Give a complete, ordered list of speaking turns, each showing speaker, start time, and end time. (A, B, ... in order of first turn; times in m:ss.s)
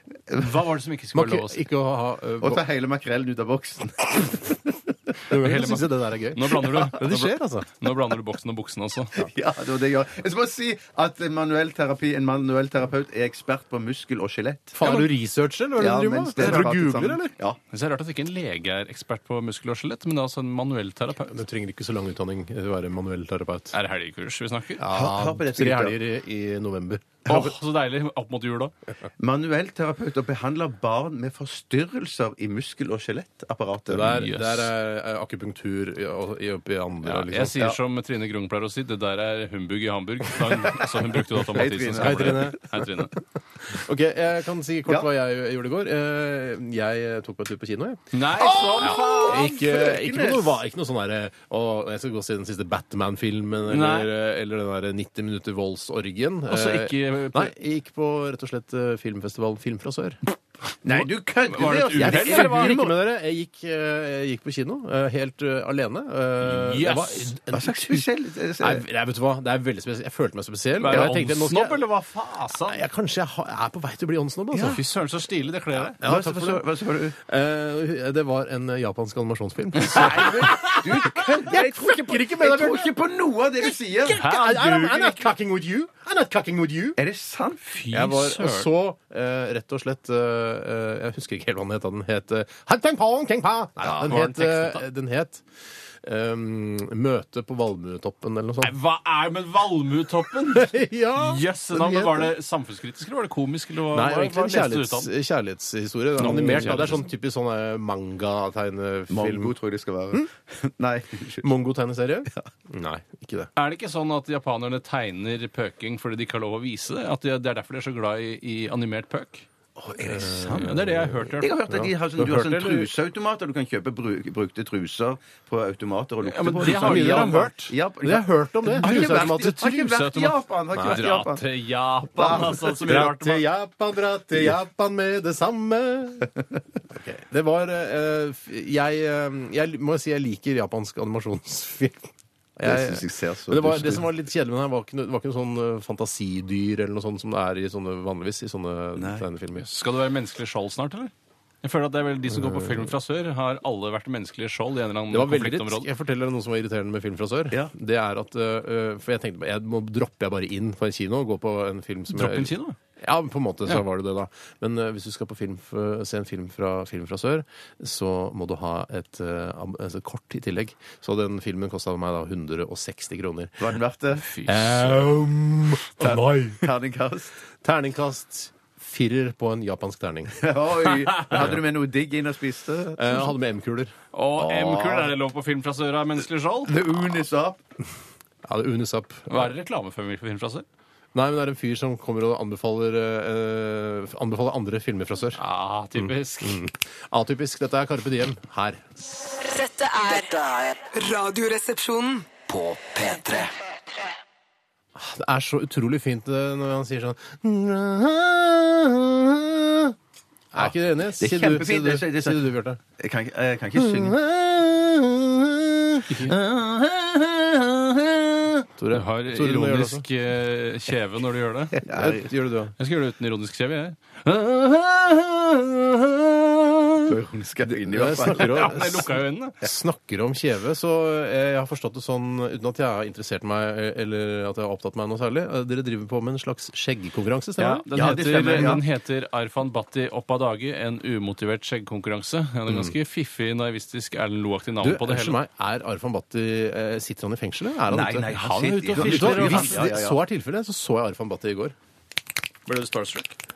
0:00.3-0:01.6 A
0:01.1-0:02.6 B
0:02.4-0:04.8 C
0:05.3-0:07.7 B
0:05.3-0:09.2 A
0:09.2-0:15.0 C
0:14.8-0:17.3 B
0:15.8-0:17.6 C
0:17.7-0:21.4 A
0:21.2-0:23.7 B
0:23.7-0:24.8 A
0:24.8-0:27.5 B
0:24.9-0:26.0 C
0:27.3-0:28.7 A
0:29.2-0:34.2 C
0:33.9-0:37.7 B
0:34.0-0:34.7 A
0:37.0-0:43.2 A
0:40.8-0:42.6 C
0:42.0-0:42.6 B
0:43.6-0:48.0 B
0:48.1-0:49.5 A
0:48.4-0:50.6 C
0:48.8-1:00.2 B
0:53.7-0:54.1 A
0:56.5-0:57.5 A
1:00.8-1:03.0 C
1:01.0-1:02.8 A
1:01.9-1:08.0 B
1:06.4-1:07.4 A
1:07.5-1:08.8 C
1:08.6-1:11.8 B
1:10.8-1:12.8 A
1:12.7-1:14.8 B
1:14.5-1:14.8 C
1:14.5-1:16.0 A
1:16.0-1:23.0 B
1:16.0-1:17.2 C
1:19.9-1:24.3 C
1:19.9-1:20.2 A
1:23.6-1:27.0 B
1:24.1-1:25.2 A
1:27.0-1:27.8 C
1:27.7-1:28.7 A
1:27.9-1:35.4 B
1:33.8-1:34.8 A
1:36.0-1:38.8 B
1:38.6-1:45.1 A
1:40.5-1:42.3 B
1:43.9-1:49.5 B
1:46.2-1:47.0 A
1:46.2-1:46.9 C
1:49.1-1:51.5 C
1:51.4-1:53.5 B
1:53.6-1:59.5 A
1:59.8-2:00.8 C
2:00.0-2:02.9 B
2:00.4-2:01.5 A
2:01.4-2:11.4 C
2:06.2-2:07.5 A
2:06.6-2:09.9 B
2:08.8-2:13.4 A
2:10.7-2:11.0 B
2:12.2-2:12.7 C
2:12.8-2:16.3 B
2:16.9-2:29.7 B
2:22.6-2:24.1 C
2:29.0-2:29.3 C
2:29.6-2:31.1 A
2:31.6-2:35.9 A
2:32.3-2:32.9 B
2:35.1-2:53.7 B
2:42.1-2:42.8 A
2:53.6-2:54.3 C
2:54.2-2:55.0 A
2:54.5-2:56.7 B
2:56.0-2:57.4 C
2:57.6-3:00.4 B
3:00.4-3:03.3 C
3:01.3-3:01.6 B
3:03.0-3:04.0 B
3:04.1-3:06.8 A
3:04.4-3:05.1 C
3:06.7-3:07.6 C
3:08.4-3:09.5 B
3:09.3-3:10.7 A
3:11.1-3:15.4 B
3:15.4-3:16.6 A
3:16.0-3:18.8 B
3:19.5-3:20.3 D
3:19.5-3:20.9 E
3:21.0-3:22.3 D
3:22.5-3:23.5 E
3:25.0-3:30.0 B
3:30.5-3:32.8 B
3:30.6-3:32.4 C
3:33.0-3:34.2 C
3:33.8-3:36.2 B
3:36.1-3:36.4 A
3:36.3-3:38.6 C
3:38.8-3:40.0 B
3:38.9-3:41.8 A
3:41.8-3:42.3 C
3:41.9-3:42.7 B
3:42.8-3:47.1 A
3:47.1-3:49.0 C
3:47.9-3:57.9 B
3:48.3-3:49.6 A
3:57.6-4:05.4 A
3:57.9-3:58.8 C
3:58.5-3:58.8 B
4:02.7-4:03.0 B
4:04.8-4:08.3 B
4:07.9-4:10.2 C
4:08.3-4:09.9 A
4:09.0-4:11.8 B
4:12.7-4:13.4 A